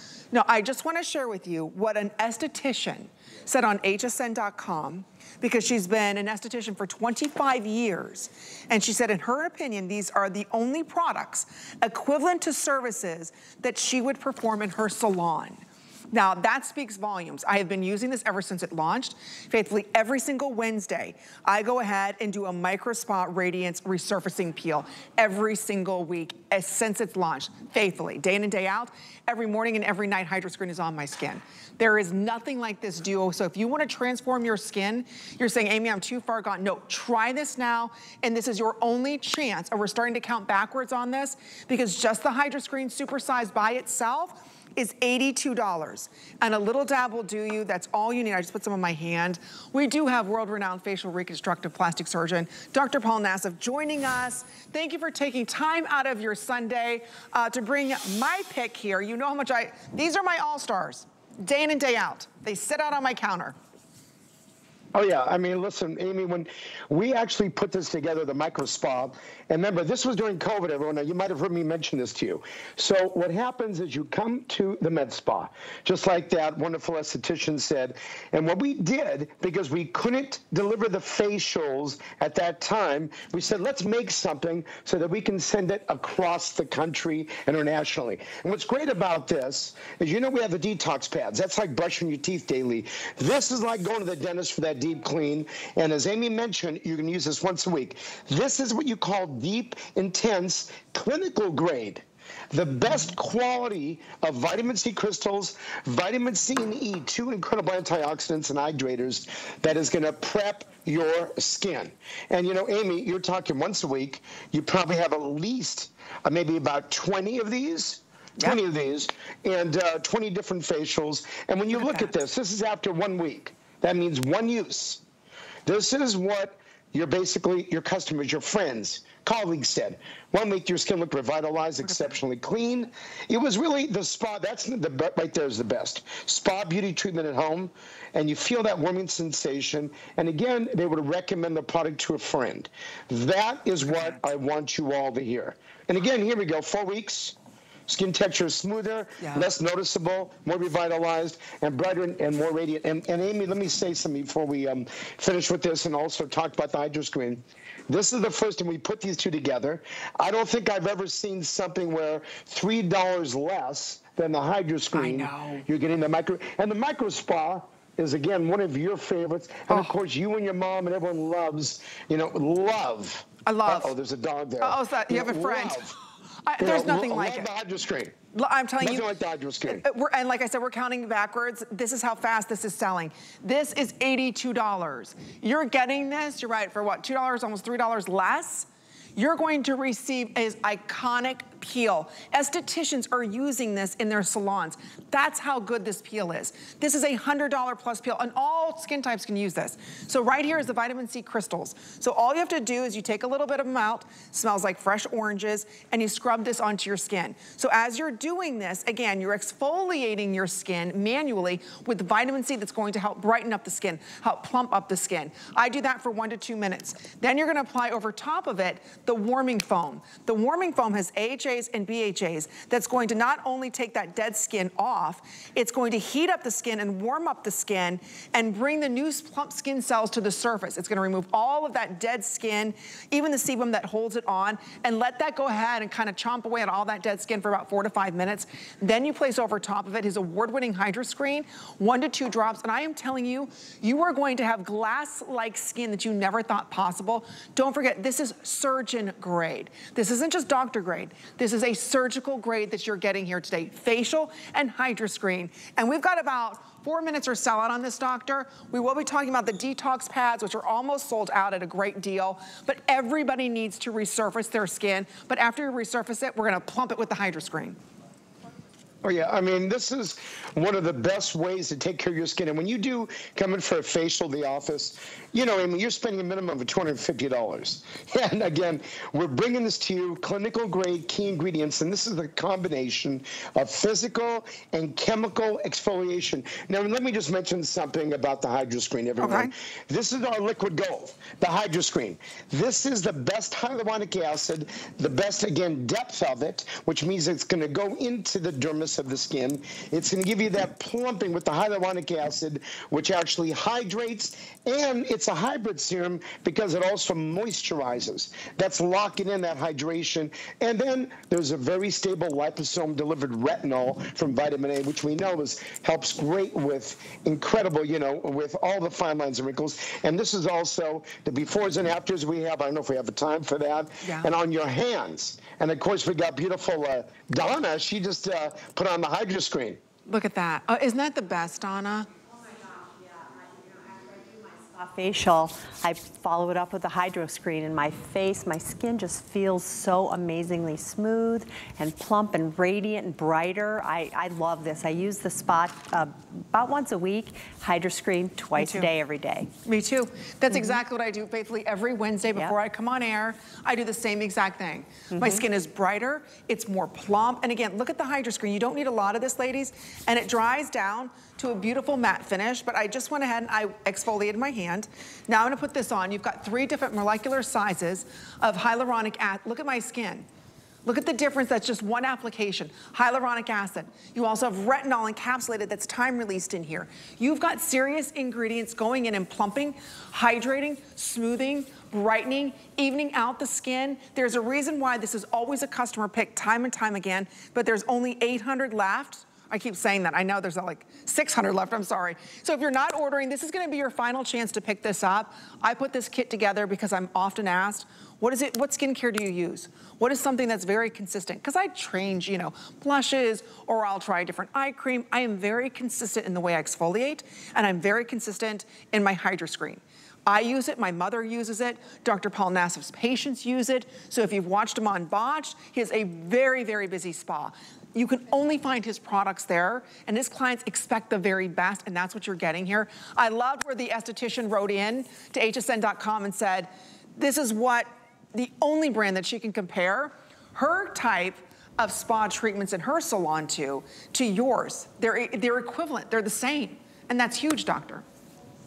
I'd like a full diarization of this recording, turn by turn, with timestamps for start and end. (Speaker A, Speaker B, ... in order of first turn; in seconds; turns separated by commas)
Speaker A: 0.3-63.5, Speaker B: 64.9-125.0, Speaker A: 121.7-122.1, Speaker B: 125.7-147.3, Speaker A: 131.8-132.1, Speaker A: 143.8-144.2, Speaker B: 147.9-176.0, Speaker A: 149.2-149.5, Speaker A: 164.9-165.6, Speaker A: 173.4-173.9, Speaker A: 174.6-175.9, Speaker A: 176.4-177.5, Speaker B: 176.6-178.1, Speaker A: 178.3-179.1, Speaker B: 178.8-179.8, Speaker A: 179.6-267.8, Speaker B: 269.0-329.8, Speaker A: 289.2-289.5, Speaker A: 324.0-324.3, Speaker A: 330.1-332.1, Speaker C: 333.3-349.5, Speaker A: 348.5-348.9, Speaker A: 349.6-370.2, Speaker C: 355.1-355.4, Speaker A: 370.8-438.0